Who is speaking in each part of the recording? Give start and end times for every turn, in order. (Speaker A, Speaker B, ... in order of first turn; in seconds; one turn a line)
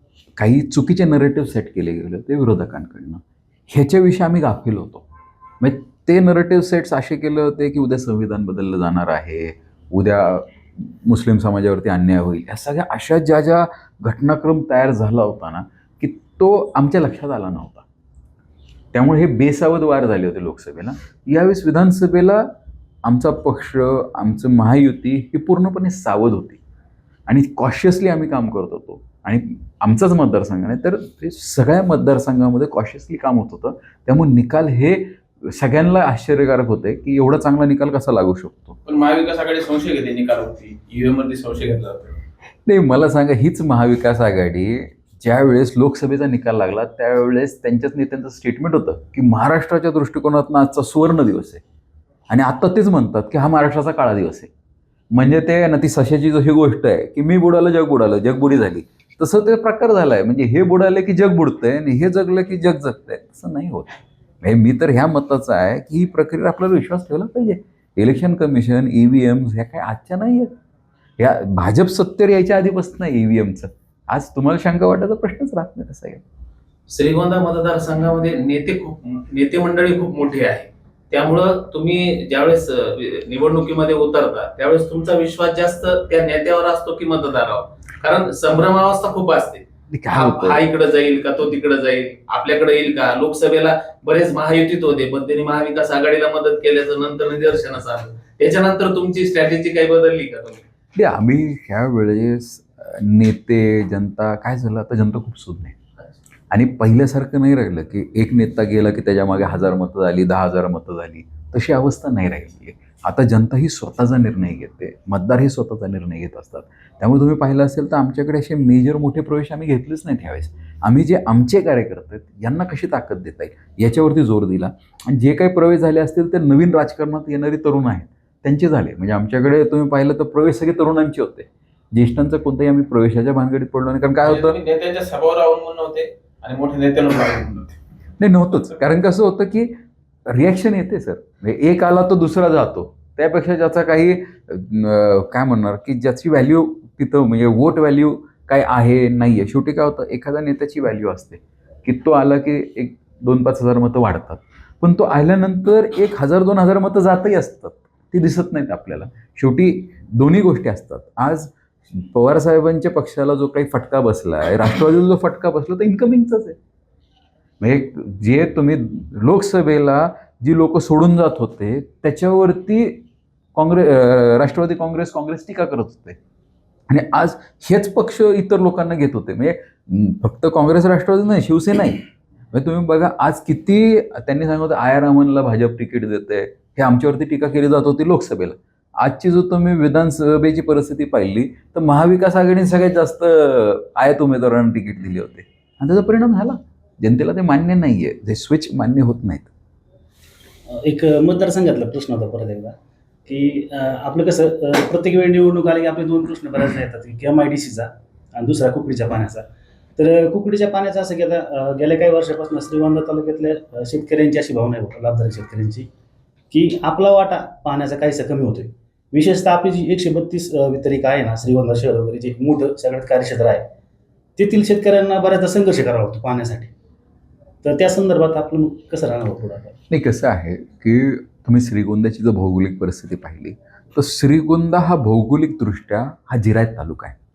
Speaker A: 0.4-5.0
Speaker A: 5.6-17.9
Speaker A: 18.9-22.5
Speaker A: 23.1-26.6
Speaker A: 27.3-38.8
Speaker B: 38.9-42.2
Speaker A: 42.6-51.6
Speaker A: 52.3-54.5
Speaker A: 55.1-70.5
Speaker A: 71.2-76.2
Speaker B: 76.9-100.6
Speaker A: 89.9-90.7
Speaker A: 100.9-105.8
Speaker A: 106.5-134.6
Speaker B: 134.2-137.8
Speaker A: 138.2-139.8
Speaker A: 140.3-166.6
Speaker A: 167.6-173.0
Speaker A: 173.6-176.2
Speaker A: 176.9-199.5
Speaker C: 200.7-202.8
Speaker C: 203.3-209.4
Speaker C: 210.0-215.9
Speaker C: 216.5-223.7
Speaker C: 224.4-226.7
Speaker C: 227.6-229.8
Speaker A: 229.9-237.2